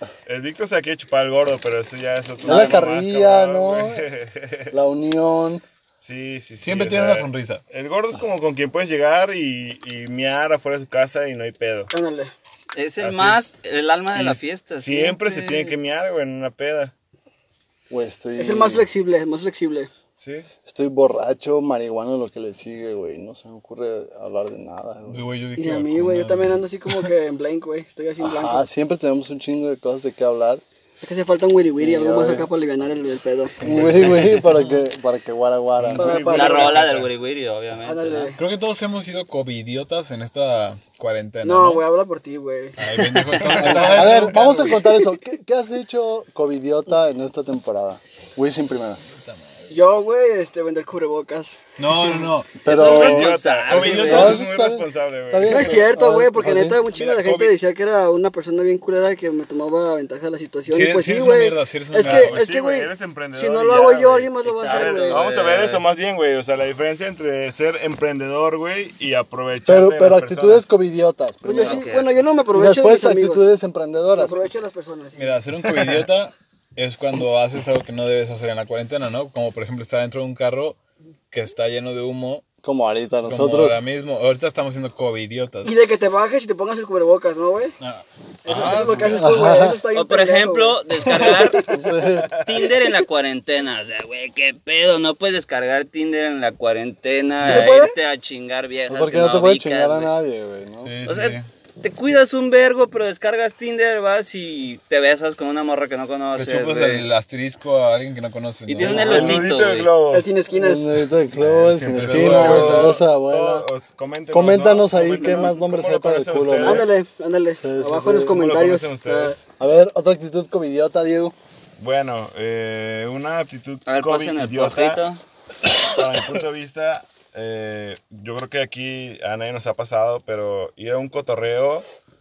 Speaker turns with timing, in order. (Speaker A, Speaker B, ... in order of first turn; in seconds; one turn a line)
Speaker A: 0.2-4.7
Speaker B: 2.4-4.0
Speaker C: 2.5-2.8
Speaker B: 4.7-5.6
Speaker A: 6.0-11.9
Speaker D: 6.6-7.6
Speaker C: 11.9-12.3
Speaker E: 12.7-15.8
Speaker A: 13.0-13.4
Speaker A: 14.1-16.9
Speaker B: 17.9-18.9
Speaker C: 18.4-19.9
Speaker A: 20.2-20.5
Speaker B: 20.6-25.2
Speaker D: 25.1-27.1
Speaker C: 25.5-28.7
Speaker B: 28.2-30.6
Speaker C: 31.0-33.6
Speaker B: 31.8-32.5
Speaker D: 33.6-34.8
Speaker B: 33.6-36.3
Speaker A: 33.6-34.3
Speaker A: 35.8-37.1
Speaker C: 36.0-36.8
Speaker E: 36.2-38.3
Speaker C: 37.8-38.4
Speaker D: 38.3-41.9
Speaker C: 41.4-45.1
Speaker D: 42.8-44.8
Speaker A: 43.4-44.2
Speaker B: 43.5-49.0
Speaker D: 49.1-49.7
Speaker C: 49.7-52.2
Speaker D: 51.8-52.6
Speaker B: 52.6-53.4
Speaker A: 52.6-55.9
Speaker E: 52.7-54.4
Speaker D: 53.7-54.4
Speaker B: 54.0-56.8
Speaker C: 55.4-65.3
Speaker D: 56.8-57.5
Speaker D: 60.7-62.4
Speaker A: 62.0-70.6
Speaker E: 64.4-65.8
Speaker B: 69.6-71.8
Speaker C: 71.4-73.5
Speaker E: 71.6-72.2
Speaker B: 72.5-74.4
Speaker C: 74.2-75.4
Speaker D: 75.2-80.8
Speaker D: 81.3-82.4
Speaker B: 82.6-83.8
Speaker D: 83.3-85.7
Speaker C: 85.6-87.7
Speaker D: 87.8-89.3
Speaker C: 88.4-91.9
Speaker E: 88.5-89.3
Speaker B: 89.0-89.8
Speaker E: 89.9-91.6
Speaker B: 91.7-92.3
Speaker A: 92.3-92.7
Speaker E: 92.3-100.1
Speaker C: 92.6-93.0
Speaker C: 97.4-98.0
Speaker B: 98.9-100.9
Speaker D: 100.8-101.5
Speaker E: 101.0-107.1
Speaker D: 106.3-109.5
Speaker E: 108.7-109.9
Speaker B: 108.8-109.4
Speaker A: 108.9-110.3
Speaker C: 110.1-110.9
Speaker B: 110.5-113.7
Speaker D: 111.3-113.0
Speaker A: 111.8-116.9
Speaker B: 114.3-116.9
Speaker C: 115.2-115.5
Speaker C: 116.6-119.4
Speaker B: 117.6-118.4
Speaker A: 118.2-119.4
Speaker B: 119.6-121.3
Speaker A: 121.8-125.0
Speaker E: 123.8-125.2
Speaker A: 125.8-131.8